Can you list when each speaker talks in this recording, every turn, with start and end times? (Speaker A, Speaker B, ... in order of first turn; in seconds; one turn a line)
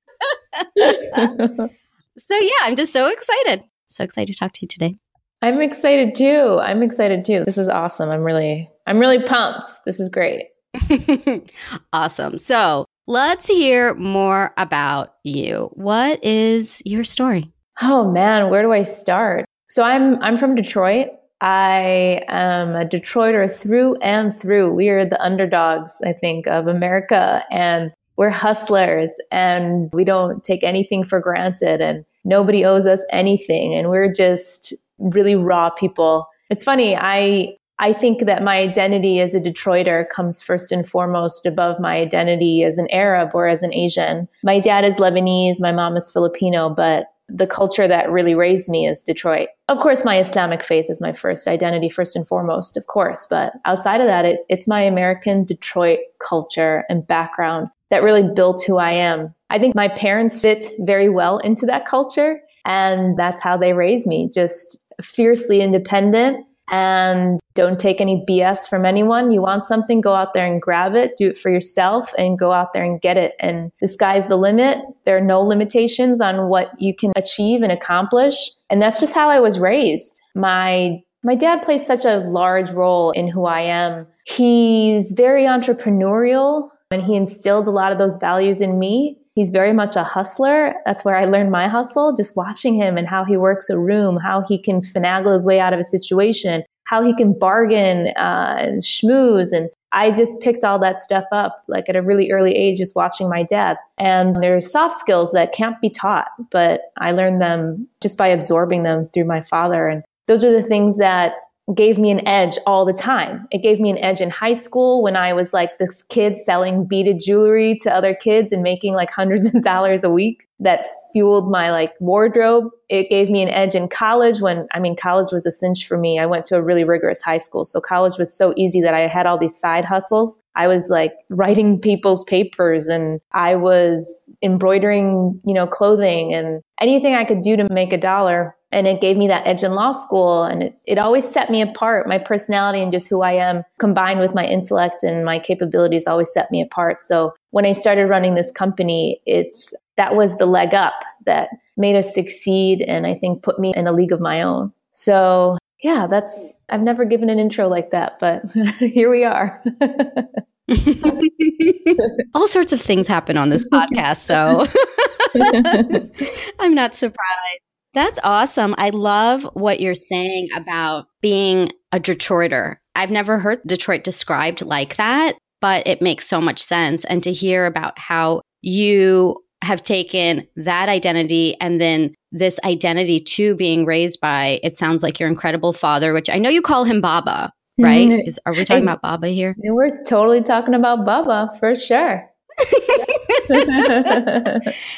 Speaker A: 0.6-1.3
Speaker B: 0.8-1.7
Speaker A: 2.2-5.0
Speaker B: 5.4-10.5
Speaker A: 10.8-17.5
Speaker B: 17.8-160.4
Speaker A: 160.7-189.6
Speaker B: 163.9-164.6
Speaker B: 165.4-166.0
Speaker B: 187.8-188.9
Speaker B: 189.6-192.3
Speaker A: 192.7-194.2
Speaker B: 193.5-194.7